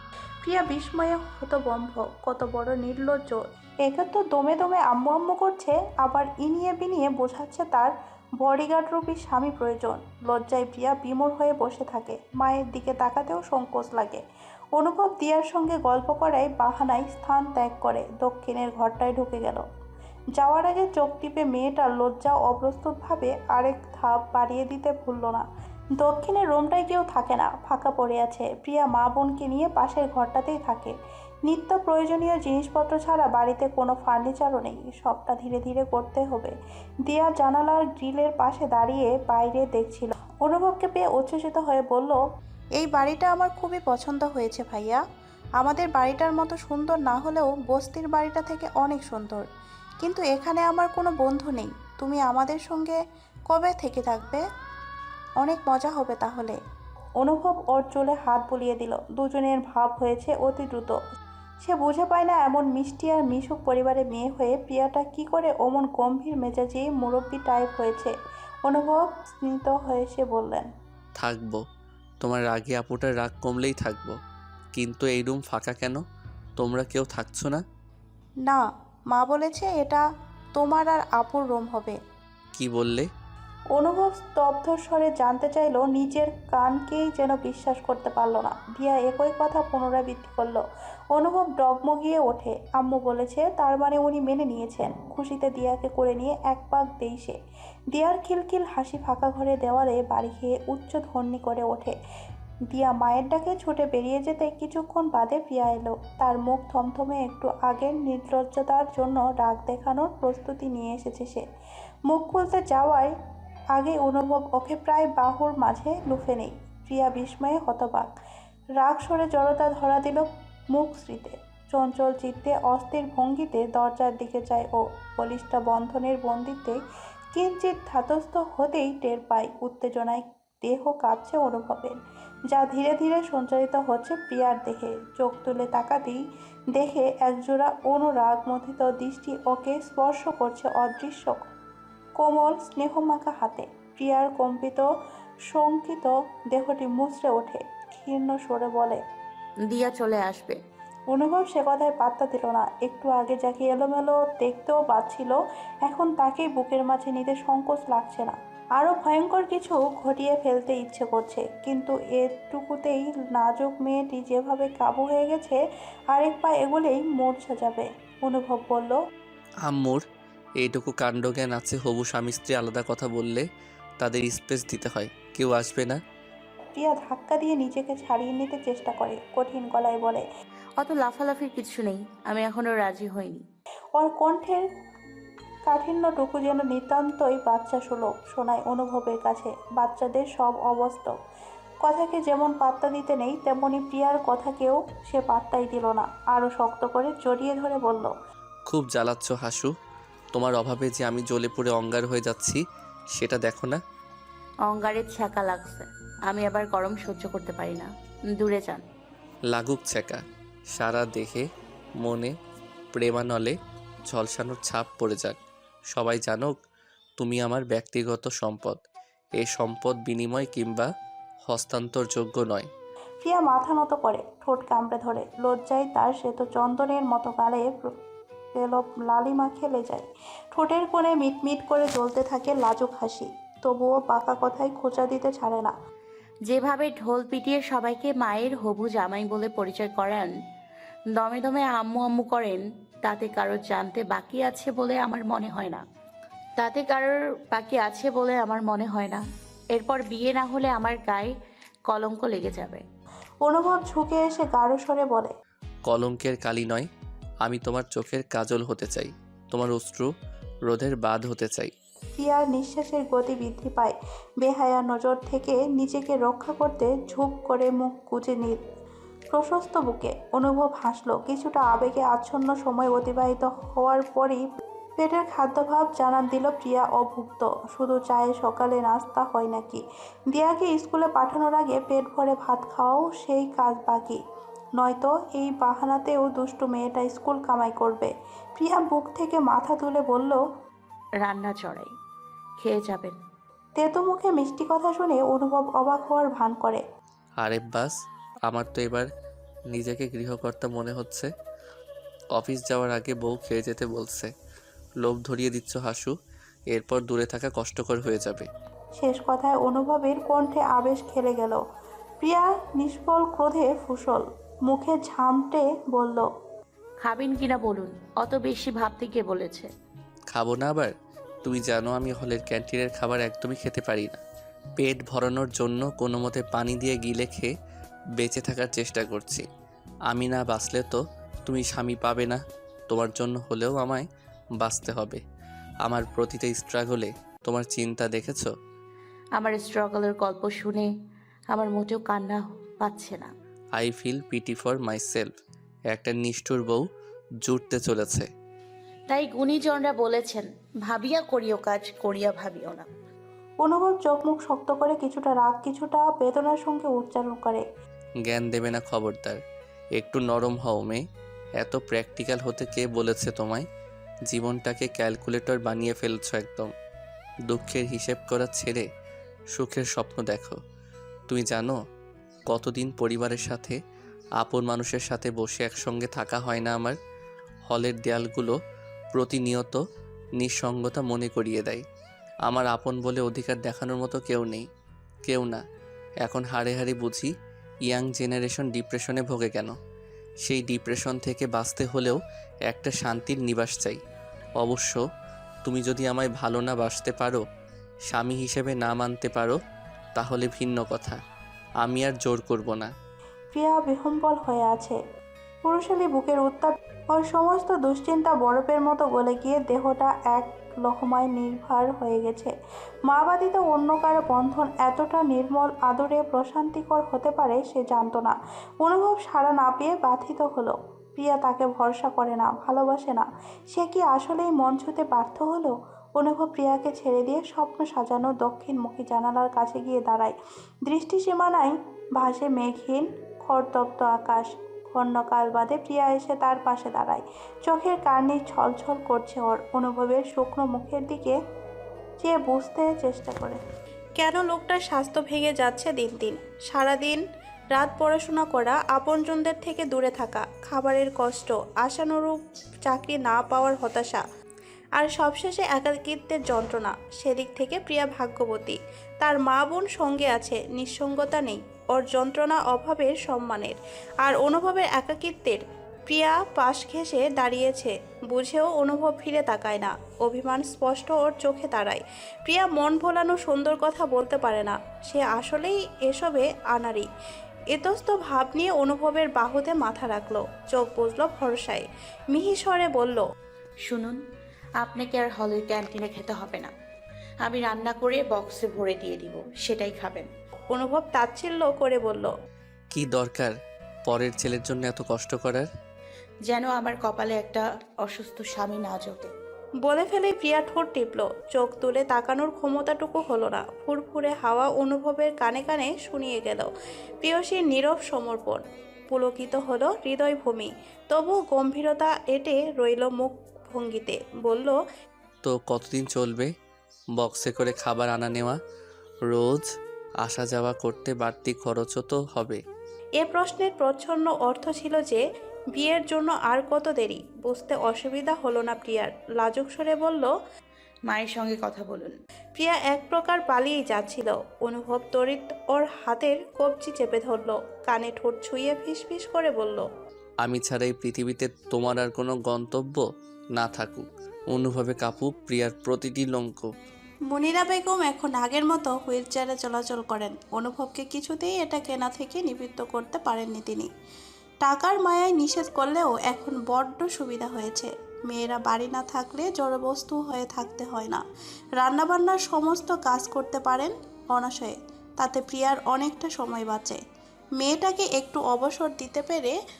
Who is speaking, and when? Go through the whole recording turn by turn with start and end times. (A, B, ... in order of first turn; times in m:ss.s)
0:00.4-0:14.2 A
0:14.8-0:19.6 A
0:20.4-0:25.4 A
0:26.0-0:30.9 A
0:31.5-0:36.5 A
0:37.1-0:42.2 A
0:42.8-0:45.0 A
0:45.6-0:49.4 A
0:50.0-0:53.0 A
0:53.5-0:54.4 A
0:55.4-0:56.6 A
0:57.2-1:01.0 A
1:01.6-1:08.1 A
1:08.7-1:10.7 A
1:11.2-1:11.6 B
1:12.2-1:14.2 B
1:14.7-1:16.0 B
1:16.6-1:17.6 B
1:18.5-1:20.0 A
1:20.6-1:22.0 A
1:22.6-1:23.1 B
1:23.8-1:37.4 A
1:37.9-1:42.0 A
1:42.7-1:51.4 A
1:52.1-1:53.1 A
1:53.8-1:58.1 A
1:58.8-2:06.8 A
2:07.4-2:12.0 A
2:12.5-2:16.2 A
2:16.7-2:21.4 A
2:22.2-2:24.8 A
2:25.5-2:29.0 A
2:29.7-2:30.6 C
2:31.1-2:45.6 A
2:46.1-2:49.0 A
2:49.7-2:50.0 B
2:50.6-2:53.5 B
2:54.0-2:56.0 B
2:56.7-3:00.2 A
3:00.8-3:03.4 C
3:04.0-3:04.6 A
3:05.7-3:11.1 A
3:11.8-3:18.1 A
3:18.7-3:19.7 B
3:20.3-3:22.6 B
3:23.2-3:23.8 B
3:24.7-3:28.8 C
3:29.5-3:30.2 B
3:30.8-3:31.5 B
3:32.0-3:32.3 B
3:32.9-3:33.6 B
3:34.1-3:35.4 B
3:35.9-3:36.6 B
3:37.2-3:38.8 B
3:39.4-3:40.9 B
3:41.5-3:42.7 B
3:43.2-3:47.9 A
3:48.6-3:55.7 A
3:56.5-4:00.3 C
4:01.2-4:05.8 C
4:06.6-4:09.2 C
4:09.7-4:11.3 C
4:11.9-4:12.8 C
4:13.4-4:15.3 A
4:15.9-4:16.9 B
4:17.4-4:20.1 B
4:20.7-4:21.7 B
4:22.2-4:28.6 A
4:29.3-4:34.4 A
4:35.0-4:44.2 A
4:44.8-4:50.4 A
4:51.2-4:51.9 C
4:52.6-4:53.2 C
4:53.8-4:56.8 A
4:57.4-4:58.0 B
4:58.5-4:59.1 B
4:59.7-5:01.3 B
5:02.4-5:04.3 B
5:05.0-5:06.1 B
5:06.7-5:08.5 B
5:09.0-5:11.6 A
5:12.2-5:16.3 A
5:17.0-5:19.7 C
5:20.3-5:20.9 B
5:21.4-5:24.2 B
5:24.8-5:27.5 B
5:28.2-5:29.4 B
5:30.1-5:34.1 B
5:34.6-5:35.2 B
5:35.9-5:38.5 B
5:39.4-5:40.9 C
5:41.5-5:43.3 C
5:43.8-5:45.3 B
5:45.9-5:46.8 B
5:47.4-5:48.3 B
5:49.1-5:52.9 C
5:53.6-5:57.6 A
5:58.3-5:59.4 B
6:00.0-6:01.0 B
6:01.6-6:03.7 B
6:04.3-6:06.7 B
6:07.5-6:08.9 B
6:09.5-6:10.6 B
6:11.3-6:11.8 B
6:12.5-6:13.8 B
6:14.4-6:17.0 B
6:17.7-6:18.6 B
6:19.1-6:19.8 B
6:20.4-6:21.8 B
6:22.5-6:24.7 B
6:25.3-6:25.6 B
6:26.3-6:27.3 B
6:27.9-6:29.7 B
6:30.4-6:34.0 B
6:34.6-6:35.0 B
6:35.6-6:37.4 B
6:38.1-6:39.6 B
6:40.2-6:41.2 B
6:41.8-6:42.9 B
6:43.5-6:45.0 A
6:45.7-6:52.5 A
6:53.1-7:10.3 A
7:10.9-7:21.4 A
7:22.2-7:23.6 A
7:24.2-7:27.2 A
7:27.7-7:34.2 A
7:35.0-7:57.1 A
7:57.7-8:03.2 A
8:03.9-8:04.2 C
8:04.8-8:06.7 C
8:07.4-8:10.3 C
8:10.7-8:12.3 A
8:12.9-8:13.5 B
8:14.1-8:15.7 B
8:16.5-8:19.3 C
8:19.8-8:26.7 A
8:27.2-8:34.8 A
8:35.4-8:36.5 B
8:37.2-8:38.6 B
8:39.3-8:39.7 B
8:40.2-8:42.6 B
8:43.2-8:45.2 A
8:45.8-8:50.3 A
8:51.1-8:52.2 C
8:52.6-8:59.9 A
9:00.4-9:03.0 B
9:03.6-9:06.7 B
9:07.3-9:13.9 A
9:14.6-9:21.2 A
9:21.8-9:27.0 A
9:27.6-9:29.6 A